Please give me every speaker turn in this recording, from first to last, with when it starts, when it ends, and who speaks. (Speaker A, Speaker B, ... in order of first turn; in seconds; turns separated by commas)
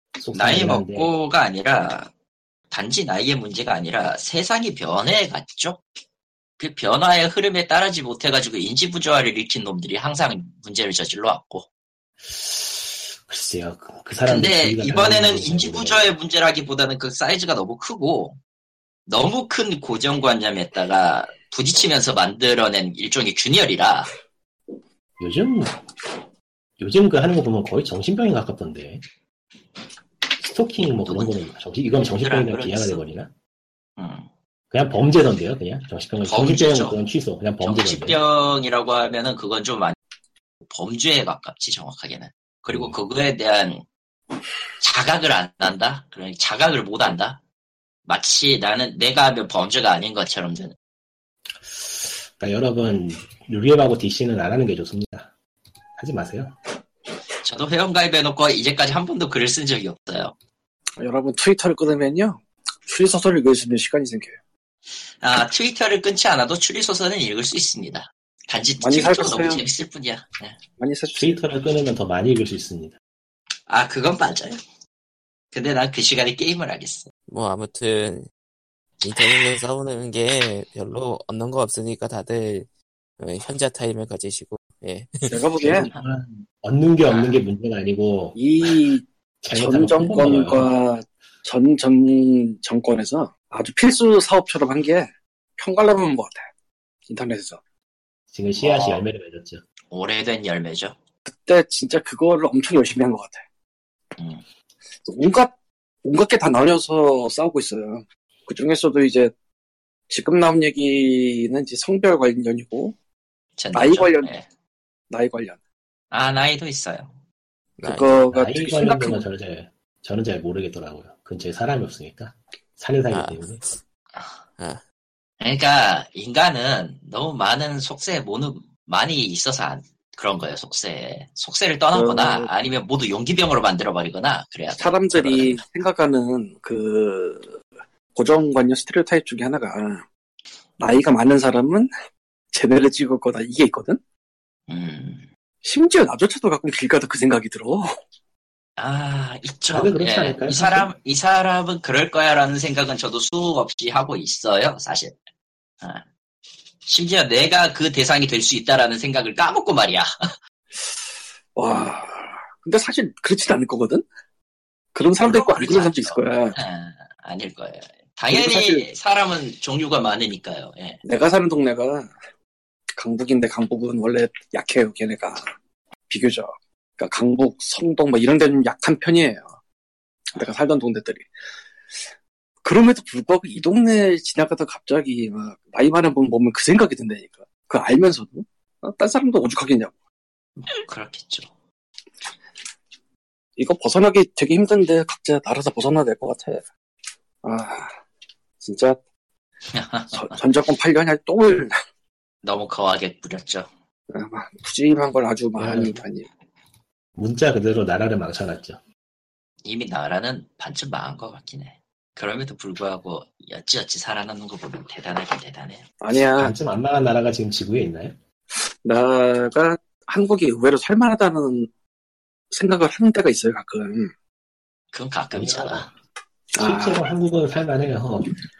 Speaker A: 0.2-1.1, Speaker B: 0.3-2.1, Speaker B: 2.7-5.8, Speaker B: 6.6-11.7, Speaker A: 12.3-16.1, Speaker B: 14.2-18.4, Speaker B: 19.1-24.1, Speaker A: 25.2-25.8, Speaker A: 26.8-29.0, Speaker A: 30.4-33.3, Speaker B: 31.1-31.5, Speaker B: 32.2-33.0, Speaker B: 34.0-34.3, Speaker A: 34.7-38.2, Speaker B: 36.2-37.0, Speaker B: 37.6-40.0, Speaker B: 40.7-43.9, Speaker A: 42.7-43.0, Speaker B: 44.8-47.4, Speaker B: 48.1-50.8, Speaker A: 51.7-55.3, Speaker A: 56.0-56.6, Speaker B: 57.4-60.4, Speaker C: 61.0-64.3, Speaker B: 65.2-70.6, Speaker C: 68.8-69.6, Speaker C: 70.8-71.4, Speaker A: 71.2-73.0, Speaker B: 73.7-74.6, Speaker B: 75.5-77.1, Speaker D: 77.3-78.3, Speaker D: 79.0-82.7, Speaker D: 83.2-85.4, Speaker C: 85.3-85.9, Speaker A: 85.6-88.4, Speaker B: 87.0-87.4, Speaker C: 88.4-96.5, Speaker A: 89.4-90.7, Speaker C: 97.1-97.6, Speaker A: 98.3-99.6, Speaker B: 98.6-99.1, Speaker B: 99.9-101.0, Speaker C: 101.3-103.4, Speaker B: 104.2-104.4, Speaker C: 105.1-105.5, Speaker C: 106.0-109.3, Speaker C: 110.1-112.9, Speaker B: 113.6-114.5, Speaker C: 113.7-114.3, Speaker C: 115.1-115.6, Speaker B: 116.1-117.2, Speaker D: 117.8-118.2, Speaker C: 117.8-119.2, Speaker A: 118.3-123.7, Speaker D: 123.1-123.8, Speaker B: 125.4-135.6, Speaker C: 131.9-132.5, Speaker C: 134.8-137.6, Speaker C: 138.2-140.0, Speaker C: 140.8-141.9, Speaker C: 142.5-144.0, Speaker B: 144.7-145.3, Speaker C: 145.6-147.9, Speaker B: 148.8-155.2, Speaker A: 149.7-150.9, Speaker B: 156.8-160.1, Speaker C: 161.6-164.0, Speaker C: 164.9-166.6, Speaker B: 165.2-171.0, Speaker C: 168.3-168.9, Speaker C: 171.0-172.1, Speaker C: 172.9-175.5, Speaker C: 176.1-179.5, Speaker C: 180.3-181.3, Speaker C: 182.6-189.9, Speaker B: 190.7-191.5, Speaker C: 193.6-196.6, Speaker C: 197.4-197.9, Speaker C: 198.6-199.0, Speaker B: 199.7-200.4, Speaker C: 200.1-201.7, Speaker B: 202.4-203.7, Speaker C: 204.1-206.3, Speaker A: 205.6-206.0, Speaker A: 207.2-208.8, Speaker B: 209.7-215.9, Speaker C: 216.0-216.5, Speaker A: 216.4-218.2, Speaker C: 218.6-221.7, Speaker C: 222.5-224.1, Speaker B: 224.9-225.9, Speaker A: 225.3-225.9, Speaker C: 226.6-227.0, Speaker A: 226.6-228.3